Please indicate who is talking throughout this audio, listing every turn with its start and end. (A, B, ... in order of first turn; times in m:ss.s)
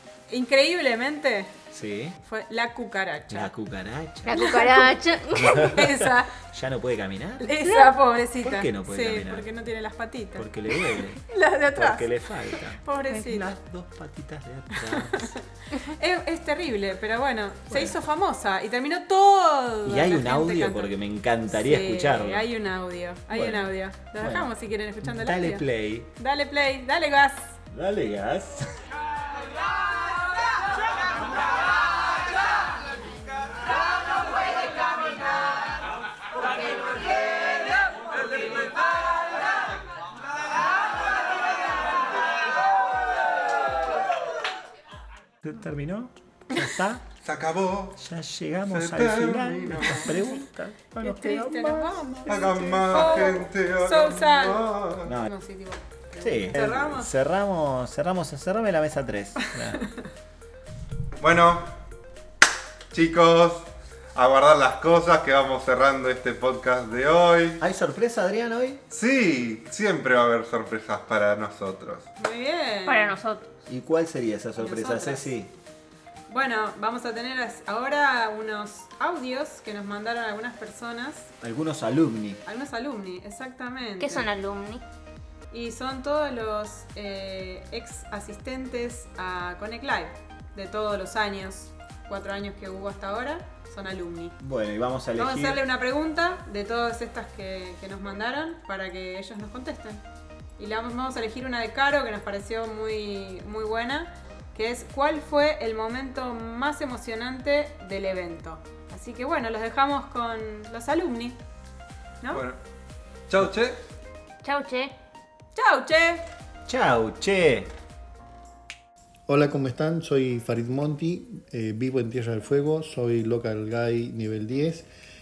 0:00.3-0:01.5 A
0:01.7-0:02.2 B
0:02.2-0:03.5 A
0:03.3-0:04.4 B
0:04.2-0:05.8 C
0:05.3-0:07.7 B
0:05.7-0:06.3 A
0:07.4-0:10.5 A
0:08.4-0:09.5 B
0:10.3-0:15.3 B
0:11.3-0:12.1 A
0:12.8-0:13.5 A
0:14.7-0:20.9 A
0:17.7-0:17.9 B
0:19.8-0:22.5 B
0:21.5-0:27.6 A
0:23.3-0:24.5 B
0:25.0-0:26.1 B
0:27.7-0:28.7 B
0:45.4-0:47.0 B
0:47.2-0:48.0 D
0:48.0-0:53.3 B
0:48.6-0:50.2 D
0:51.0-0:57.1 A
0:52.3-0:55.1 D
0:55.0-0:55.3 B
0:56.2-0:59.8 B
1:01.2-1:01.7 D
1:02.9-1:07.6 D
1:07.6-1:08.8 B
1:08.9-1:12.1 D
1:12.2-1:13.2 A
1:12.9-1:13.5 C
1:13.7-1:15.5 B
1:14.6-1:15.3 A
1:16.3-1:21.3 A
1:21.4-1:22.4 B
1:22.4-1:24.2 A
1:24.0-1:24.8 C
1:25.5-1:34.4 A
1:34.4-1:35.6 B
1:35.2-1:40.0 A
1:40.6-1:51.4 A
1:52.3-1:52.6 D
1:53.3-1:53.8 D
1:54.4-1:54.9 C
1:55.6-1:56.2 A
1:56.7-1:57.7 B
1:59.3-2:04.9 E